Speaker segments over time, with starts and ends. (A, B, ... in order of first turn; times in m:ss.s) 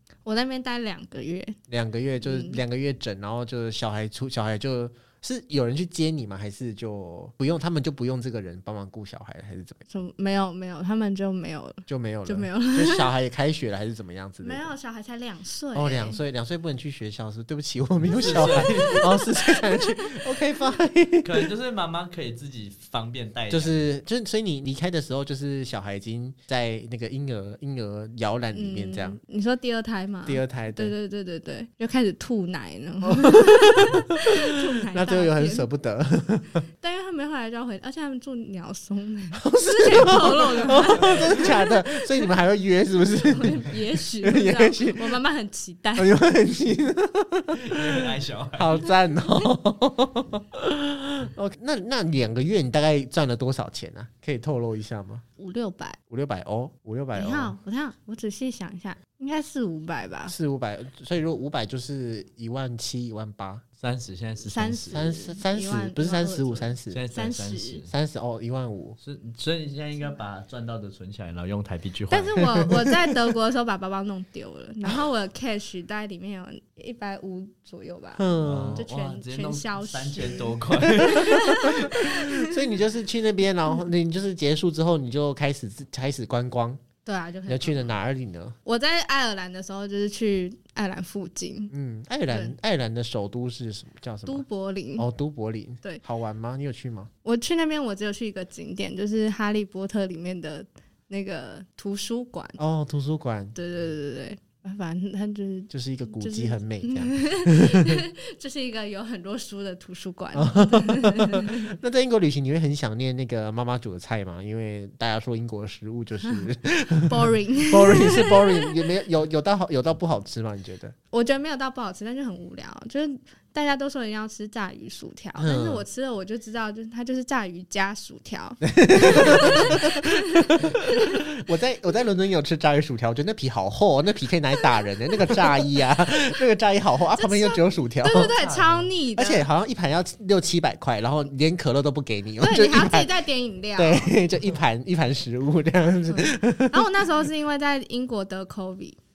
0:00.2-0:01.6 A
0:01.7-0:09.8 B
0:02.2-0:02.6 A
0:09.9-0:13.1 A
0:11.9-0:14.6 B
0:14.4-0:16.2 A
0:15.7-0:21.5 B
0:18.1-0:19.1 C
0:18.8-0:20.0 A
0:21.2-0:23.8 C
0:23.5-0:29.2 B
0:28.5-0:35.6 A
0:30.2-0:30.9 B
0:33.0-0:34.0 B
0:34.9-0:36.6 B
0:36.8-0:42.3 A
0:39.4-0:45.2 B
0:43.1-0:46.1 A
0:46.0-0:55.2 B
0:47.6-0:48.9 C
0:55.4-0:56.0 A
0:56.1-0:57.6 B
0:57.1-1:00.3 A
1:00.3-1:03.6 B
1:03.8-1:05.0 C
1:04.4-1:07.8 A
1:04.9-1:07.0 B
1:06.9-1:07.9 C
1:07.9-1:09.0 B
1:09.0-1:12.5 C
1:12.1-1:22.7 A
1:12.6-1:12.9 B
1:18.2-1:18.8 B
1:18.4-1:21.8 C
1:20.8-1:26.8 B
1:27.0-1:27.9 A
1:27.5-1:28.6 B
1:28.6-1:31.7 A
1:31.7-1:34.4 B
1:32.3-1:32.6 A
1:34.2-1:35.0 A
1:35.0-1:37.1 B
1:37.2-1:42.6 A
1:42.6-1:43.5 B
1:43.5-1:51.7 A
1:45.7-1:48.0 B
1:50.3-2:00.9 B
1:57.0-1:58.8 A
2:01.1-2:11.2 A
2:05.4-2:05.8 B
2:08.6-2:18.3 B
2:17.2-2:19.4 A
2:18.1-2:18.9 C
2:19.1-2:23.1 B
2:22.4-2:24.1 A
2:23.8-2:26.9 B
2:26.1-2:29.0 A